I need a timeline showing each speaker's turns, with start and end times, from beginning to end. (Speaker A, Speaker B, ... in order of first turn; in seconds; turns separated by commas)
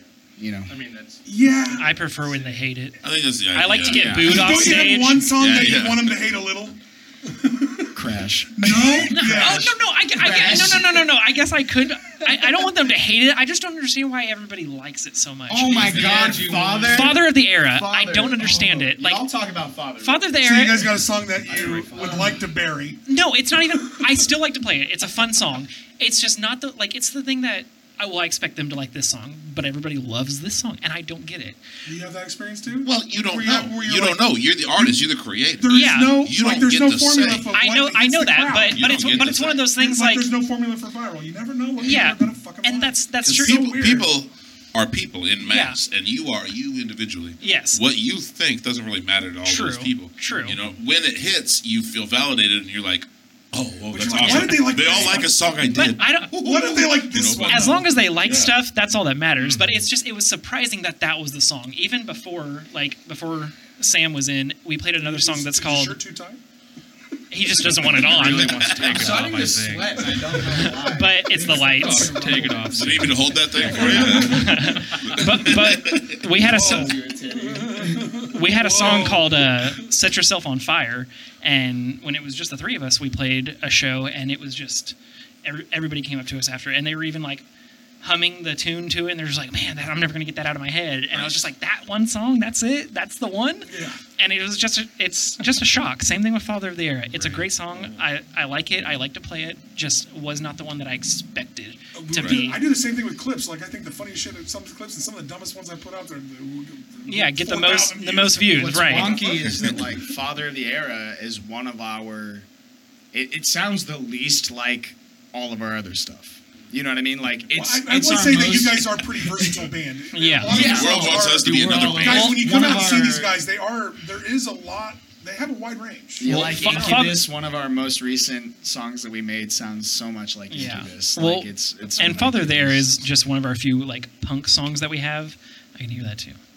Speaker A: 0.4-0.7, Speaker B: 0.7-2.6, Speaker C: 1.2-2.0, Speaker D: 1.7-3.0, Speaker E: 3.0-4.2, Speaker D: 3.5-5.3, Speaker A: 3.9-4.6, Speaker C: 4.2-8.0, Speaker E: 5.3-6.2, Speaker A: 7.9-11.1, Speaker C: 8.5-9.8, Speaker D: 9.1-19.3, Speaker C: 10.4-10.7, Speaker A: 15.5-19.3, Speaker B: 15.8-16.9, Speaker E: 15.9-16.3, Speaker F: 16.1-17.1, Speaker F: 17.8-20.2, Speaker D: 20.0-20.9, Speaker C: 20.4-23.0, Speaker B: 21.4-22.4, Speaker F: 21.5-21.9, Speaker A: 21.5-22.0, Speaker D: 23.1-31.6, Speaker C: 31.8-35.0, Speaker E: 32.7-37.5, Speaker C: 35.6-44.1, Speaker D: 35.7-36.2, Speaker D: 37.5-40.3, Speaker E: 38.7-39.6, Speaker D: 41.8-43.6, Speaker E: 43.2-58.5, Speaker D: 45.5-45.8, Speaker D: 47.4-47.8, Speaker D: 49.4-50.6, Speaker C: 53.9-55.3, Speaker D: 55.7-56.4, Speaker C: 56.3-58.0, Speaker D: 57.5-66.0, Speaker B: 59.4-59.8, Speaker C: 65.0-66.4, Speaker D: 67.3-69.2, Speaker B: 67.6-75.2, Speaker F: 68.9-71.2, Speaker A: 70.0-71.2, Speaker D: 70.6-72.2, Speaker C: 71.3-74.7, Speaker F: 71.8-72.4, Speaker E: 72.7-76.2, Speaker D: 73.8-77.0, Speaker C: 76.4-79.8, Speaker F: 76.7-78.0, Speaker D: 78.3-87.4, Speaker D: 88.0-102.6, Speaker E: 91.1-91.4, Speaker C: 93.7-94.0, Speaker E: 97.1-97.9, Speaker C: 101.9-110.0, Speaker E: 102.2-102.4, Speaker D: 107.1-109.2, Speaker A: 108.5-112.5, Speaker E: 109.2-109.9, Speaker A: 113.1-119.7, Speaker C: 117.5-127.1, Speaker D: 120.1-120.8, Speaker A: 120.4-123.4, Speaker E: 120.5-122.5, Speaker A: 126.2-133.1, Speaker D: 126.2-127.2, Speaker D: 130.5-136.4, Speaker C: 131.8-132.4